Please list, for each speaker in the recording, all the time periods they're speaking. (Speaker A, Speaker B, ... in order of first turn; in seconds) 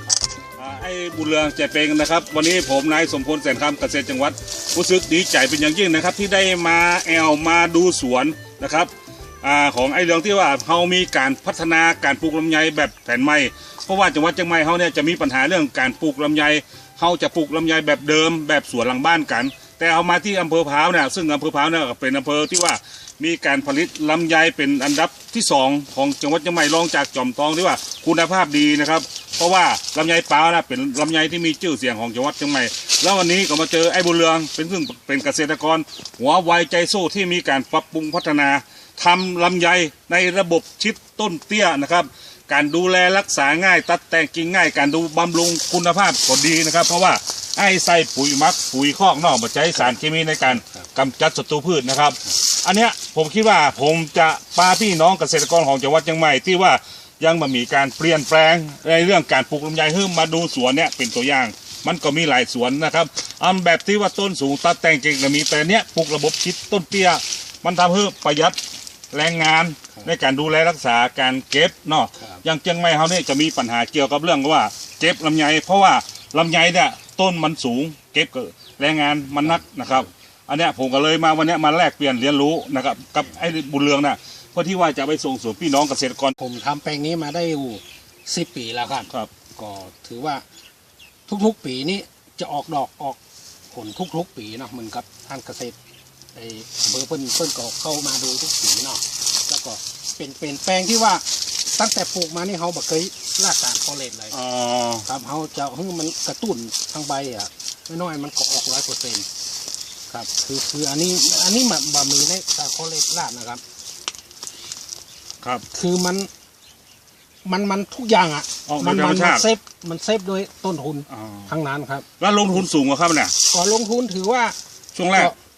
Speaker A: 0.6-8.9, 9.4-68.6, 69.1-86.4, 104.3-105.1, 118.7-119.5, 121.1-121.5, 122.2-123.3, 124.9-125.3
Speaker B: 72.2-72.4, 86.4-90.4, 91.3-93.2, 93.7-95.8, 96.3-104.3, 105.0-109.3, 110.1-113.6, 115.7-116.3, 117.4-122.0, 123.5-124.5